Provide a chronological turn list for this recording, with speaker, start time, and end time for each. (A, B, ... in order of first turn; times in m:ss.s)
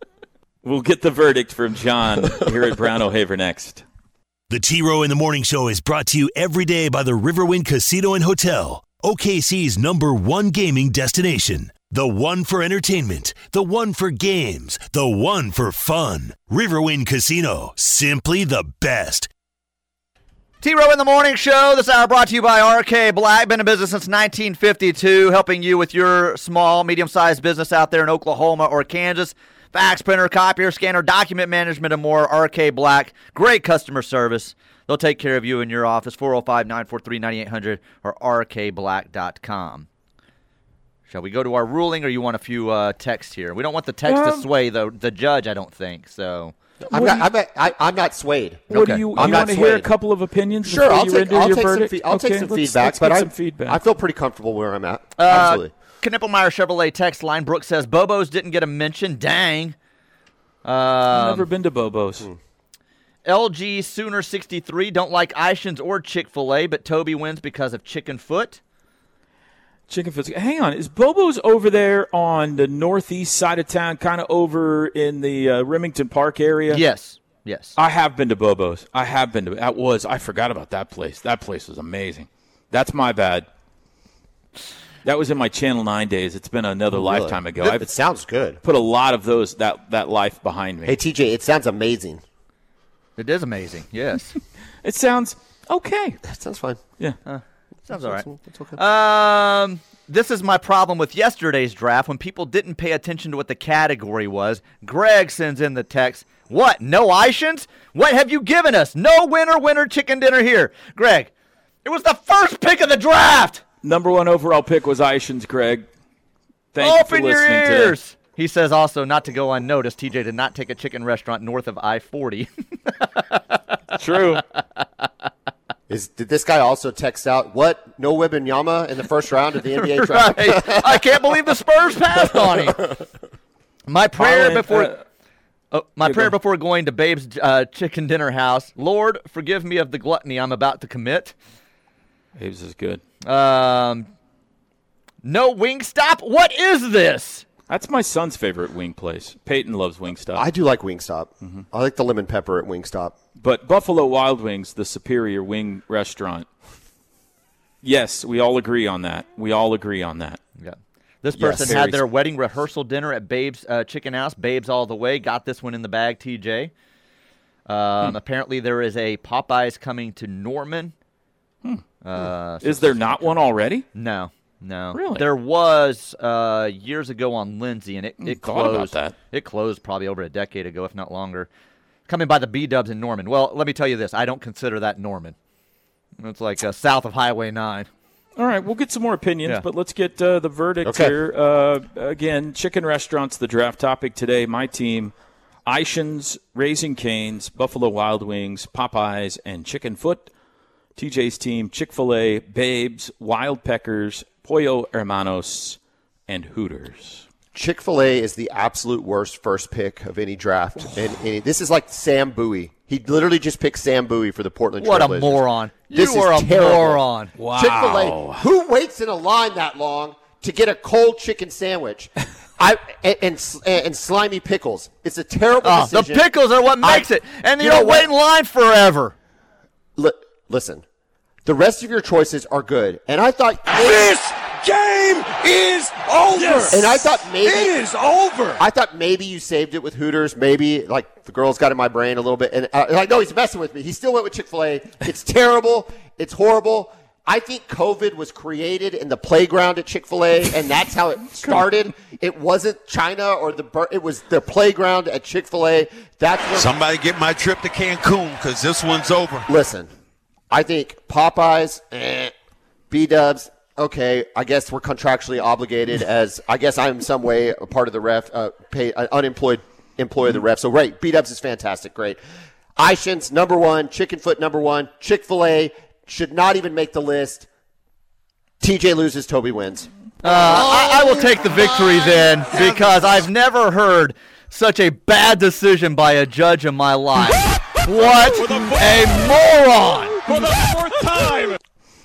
0:00.6-0:03.8 A
0:04.5-0:19.3 B
0:20.6-0:39.9 C
0:41.1-0:46.5 C
0:44.1-0:44.5 A
0:46.8-0:49.9 D
0:46.9-0:47.3 A
0:48.7-0:53.8 A
0:48.7-0:49.1 C
0:50.6-0:55.7 D
0:55.2-0:59.8 C
1:00.6-1:01.5 C
1:01.1-1:02.3 A
1:03.2-1:08.6 C
1:09.9-1:16.8 A
1:16.7-1:17.8 C
1:17.8-1:23.5 A
1:25.0-1:27.9 A
1:26.9-1:28.6 D
1:28.6-1:31.0 A
1:30.9-1:32.2 D
1:33.2-1:34.3 C
1:34.8-1:36.2 A
1:36.2-1:36.8 D
1:37.3-1:51.3 C
1:38.0-1:38.8 D
1:51.8-1:53.6 C
1:53.8-1:55.9 A
1:56.7-1:58.0 A
1:56.8-2:03.4 C
2:04.0-2:04.4 A
2:05.9-2:11.4 D
2:09.8-2:12.9 C
2:12.2-2:12.7 D
2:13.9-2:14.9 C
2:14.2-2:15.0 A
2:15.7-2:21.3 C
2:16.0-2:16.3 A
2:22.4-2:23.0 A
2:23.2-2:24.1 C
2:25.2-2:27.4 C
2:27.7-2:30.5 A
2:30.4-2:33.1 D
2:33.4-2:36.5 A
2:37.8-2:40.4 A
2:40.6-2:46.7 C
2:41.4-2:41.9 D
2:41.6-2:42.0 A
2:47.7-2:50.9 C
2:52.0-2:53.4 C
2:52.6-2:53.8 A
2:53.9-3:01.5 C
2:54.9-2:55.3 A
2:58.2-2:59.2 A
3:02.1-3:05.4 C
3:06.2-3:07.9 C
3:08.4-3:15.1 A
3:10.8-3:11.1 D
3:15.7-3:20.3 A
3:21.0-3:27.3 A
3:27.5-3:46.3 D
3:34.8-3:37.3 C
3:37.4-3:38.5 A
3:45.6-3:49.2 C
3:46.8-3:47.1 D
3:47.6-3:48.1 D
3:50.0-3:50.8 D
3:51.4-3:54.2 D
3:53.7-3:58.6 E
3:56.4-3:56.7 A
3:56.7-3:57.8 D
3:58.6-4:16.7 D
4:16.5-4:19.5 E
4:19.5-4:19.9 D
4:20.5-4:22.3 D
4:22.9-4:32.2 D
4:32.8-4:37.5 D
4:38.6-4:40.8 D
4:40.2-4:50.2 C
4:48.4-4:48.8 A
4:50.3-4:51.6 A